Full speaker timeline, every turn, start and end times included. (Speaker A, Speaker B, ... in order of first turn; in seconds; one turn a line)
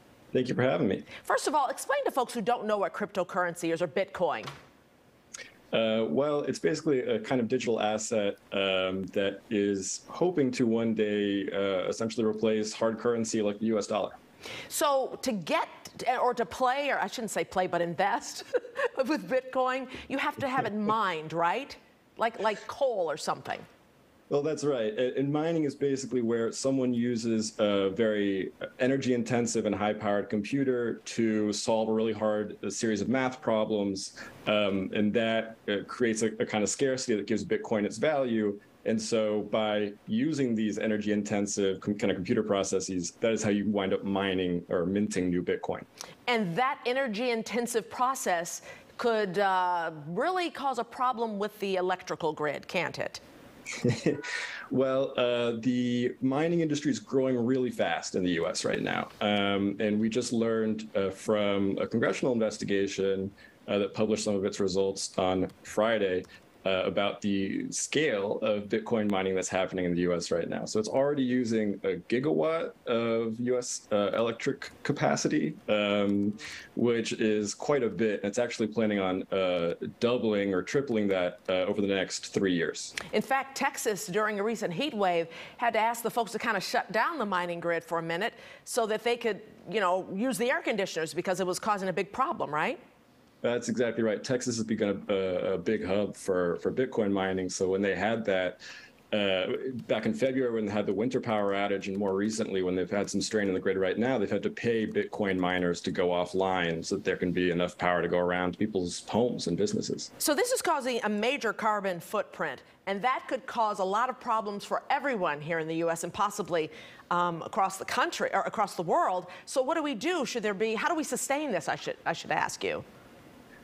Speaker A: 0.3-1.1
Speaker B: 1.2-4.5
Speaker A: 5.7-14.2
Speaker B: 14.7-23.6
Speaker A: 24.3-45.9
Speaker B: 46.3-53.2
Speaker A: 53.8-83.0
Speaker B: 83.1-92.8
Speaker A: 93.4-98.6
Speaker A: 99.1-110.1
Speaker B: 110.2-122.8